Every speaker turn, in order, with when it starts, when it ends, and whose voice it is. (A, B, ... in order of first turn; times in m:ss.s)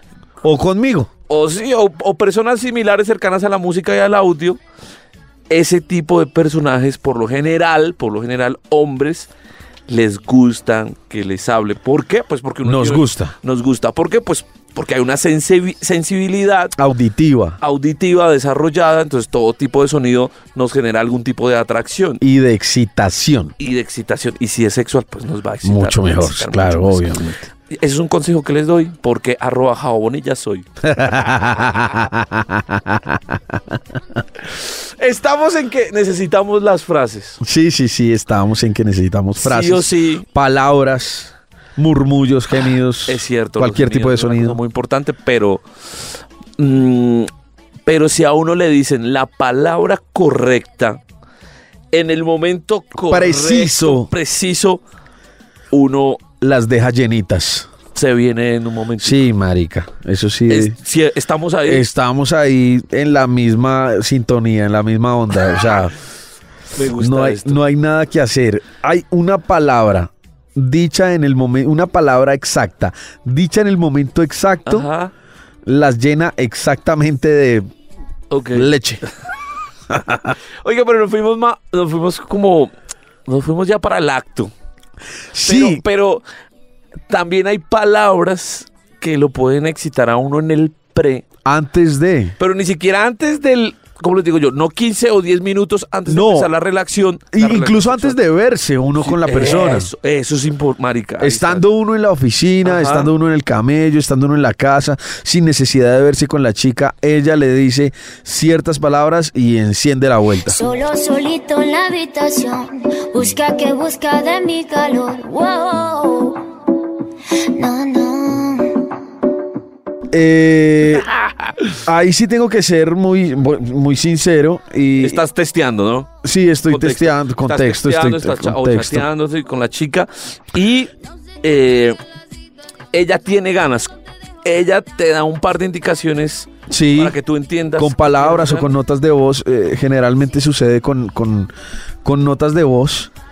0:00.4-0:01.1 A
0:01.3-0:04.6 B
0:05.5-0:09.3 B
0:09.9-0:16.7 B
0:12.6-0:13.3 A
0:16.8-0:17.6 A
0:17.6-0:22.2 B
0:22.2-0:23.5 A
0:23.6-0:27.1 B
0:25.6-0:27.4 A
0:27.7-0:30.7 B
0:30.8-0:34.2 A
0:34.5-0:37.4 B
0:37.4-0:44.6 A
0:39.4-0:40.2 B
0:43.1-0:45.6 B
0:46.6-0:47.3 B
0:47.8-0:51.0 B
0:51.9-0:54.8 B
0:53.0-0:54.1 A
0:55.7-0:56.2 B
0:56.4-0:57.7 A
0:57.9-0:59.2 B
0:59.0-1:00.8 A
1:00.5-1:01.9 B
1:01.6-1:05.9 A
1:06.7-1:07.6 B
1:07.0-1:14.9 A
1:14.6-1:15.1 B
1:15.6-1:17.7 A
1:18.3-1:19.1 B
1:18.5-1:19.0 A
1:19.9-1:20.4 A
1:20.6-1:22.7 B
1:23.3-1:24.5 B
1:25.3-1:25.8 A
1:25.4-1:26.2 B
1:27.1-1:31.2 B
1:31.4-1:32.3 A
1:32.4-1:38.2 B
1:36.1-1:36.5 A
1:37.3-1:39.9 A
1:39.0-1:41.6 B
1:41.2-1:50.6 A
1:42.6-1:43.1 B
1:50.5-1:56.4 C
1:57.6-1:58.9 C
2:00.1-2:01.1 A
2:01.8-2:05.2 A
2:05.0-2:06.1 B
2:06.2-2:09.1 A
2:06.7-2:12.0 B
2:12.9-2:13.9 B
2:14.4-2:18.7 B
2:16.7-2:17.2 A
2:17.8-2:21.5 A
2:22.0-2:23.1 A